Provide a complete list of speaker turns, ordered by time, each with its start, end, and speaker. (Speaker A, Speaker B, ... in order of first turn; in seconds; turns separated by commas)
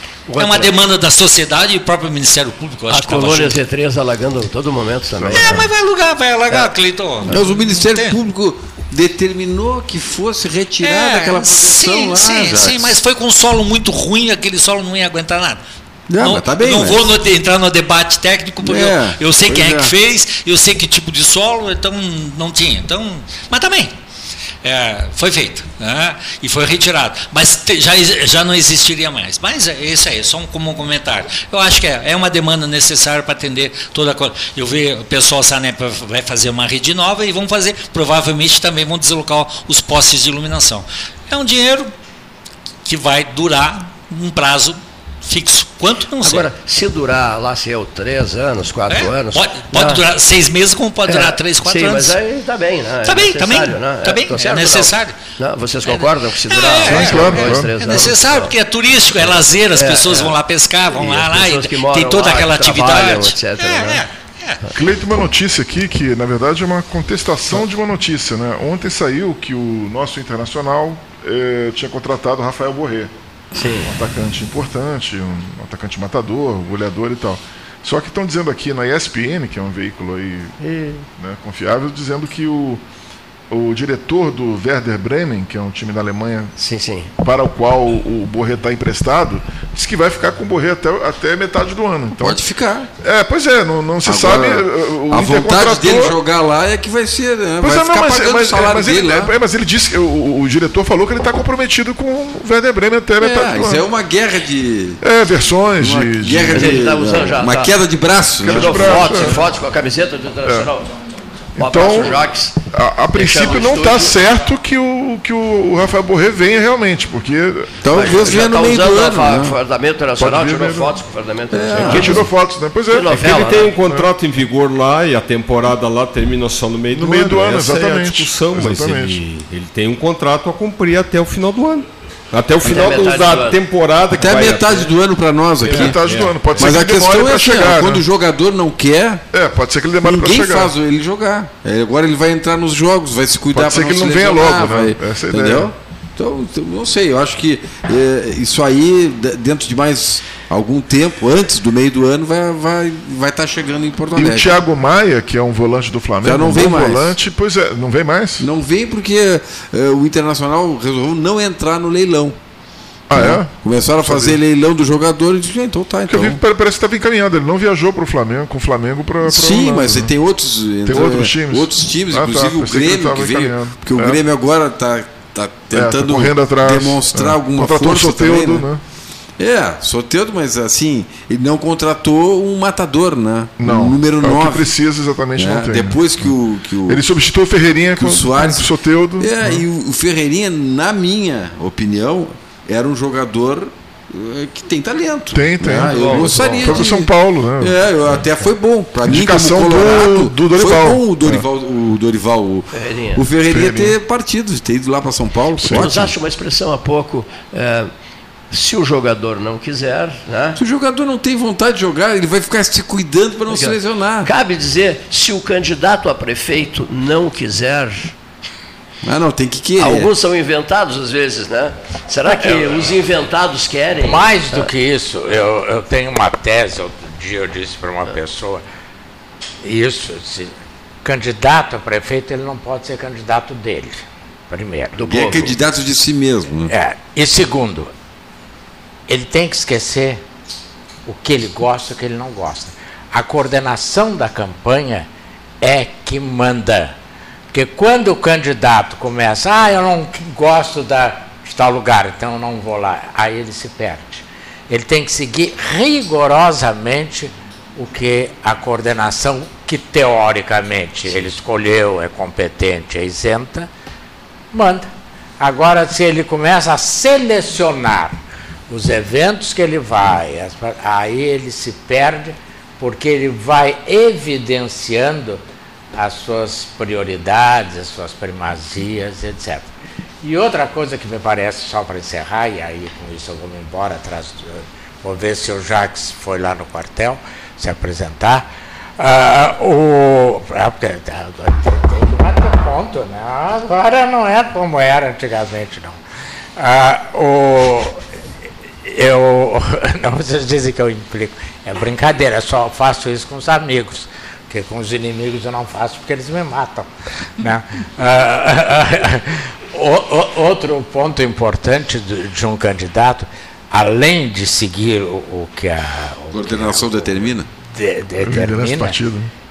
Speaker A: 0.3-0.7, Speaker B: 0.4-3.6, Speaker A: 2.9-5.7, Speaker C: 5.2-5.6, Speaker B: 5.3-8.2, Speaker D: 7.3-13.0, Speaker B: 10.8-15.6, Speaker D: 16.1-17.1, Speaker B: 16.2-23.9, Speaker D: 18.6-19.9, Speaker B: 24.6-41.9, Speaker B: 42.9-46.5, Speaker A: 46.2-50.0, Speaker B: 48.9-52.2, Speaker A: 51.1-58.5, Speaker B: 53.0-55.2, Speaker B: 55.8-64.6, Speaker C: 56.8-57.7, Speaker A: 59.2-60.4, Speaker A: 60.9-64.0, Speaker C: 64.7-73.1, Speaker A: 73.6-73.9, Speaker C: 73.8-80.5, Speaker A: 80.6-81.0, Speaker C: 81.2-82.8, Speaker C: 83.5-86.5, Speaker A: 86.6-87.1, Speaker C: 87.2-92.4, Speaker D: 92.2-92.9, Speaker C: 93.0-96.2, Speaker D: 94.0-99.3, Speaker C: 97.6-103.8, Speaker D: 103.2-105.0, Speaker C: 105.0-106.9, Speaker D: 105.8-109.3, Speaker A: 106.5-107.8, Speaker C: 108.4-109.5, Speaker A: 108.5-110.9, Speaker C: 110.5-110.7, Speaker C: 111.6-118.1, Speaker A: 111.6-112.6, Speaker A: 113.1-114.2, Speaker D: 117.8-119.6, Speaker A: 117.9-122.3, Speaker C: 120.2-121.0, Speaker D: 121.5-122.3, Speaker C: 121.8-123.2, Speaker A: 122.9-123.8, Speaker E: 123.1-134.9, Speaker C: 123.8-124.1, Speaker C: 126.9-129.2, Speaker A: 132.6-133.6, Speaker D: 134.2-136.0, Speaker C: 135.7-138.0, Speaker E: 135.7-136.9, Speaker D: 136.6-139.2, Speaker C: 139.3-140.7, Speaker D: 140.0-154.6, Speaker C: 143.5-145.7, Speaker C: 154.2-158.5, Speaker D: 156.2-157.2, Speaker D: 158.4-162.4, Speaker C: 163.1-164.4, Speaker D: 163.1-166.4, Speaker C: 166.1-170.1, Speaker D: 169.2-178.7, Speaker C: 170.9-174.2, Speaker C: 175.7-178.8, Speaker D: 179.4-184.7, Speaker C: 183.6-186.3, Speaker D: 185.4-187.0, Speaker C: 186.9-189.6, Speaker D: 188.0-206.1, Speaker C: 195.3-197.8, Speaker A: 195.9-196.9, Speaker C: 199.0-201.4, Speaker A: 202.7-203.3, Speaker C: 203.5-203.9, Speaker C: 205.6-205.9, Speaker A: 205.7-207.9, Speaker A: 208.5-210.6, Speaker D: 210.6-214.3, Speaker A: 213.5-218.2, Speaker D: 219.0-220.1, Speaker A: 219.8-224.7, Speaker F: 222.3-222.6, Speaker F: 224.0-228.6, Speaker F: 229.6-230.5, Speaker F: 231.0-235.0, Speaker A: 234.9-235.6, Speaker D: 235.1-236.7, Speaker F: 236.7-237.9, Speaker F: 239.1-240.2, Speaker F: 241.1-245.1, Speaker F: 245.6-247.0, Speaker F: 247.5-263.7, Speaker F: 264.5-264.9, Speaker F: 265.4-275.4, Speaker F: 275.9-296.0, Speaker F: 296.6-298.1, Speaker F: 298.9-319.0, Speaker D: 316.3-317.5, Speaker C: 318.2-319.3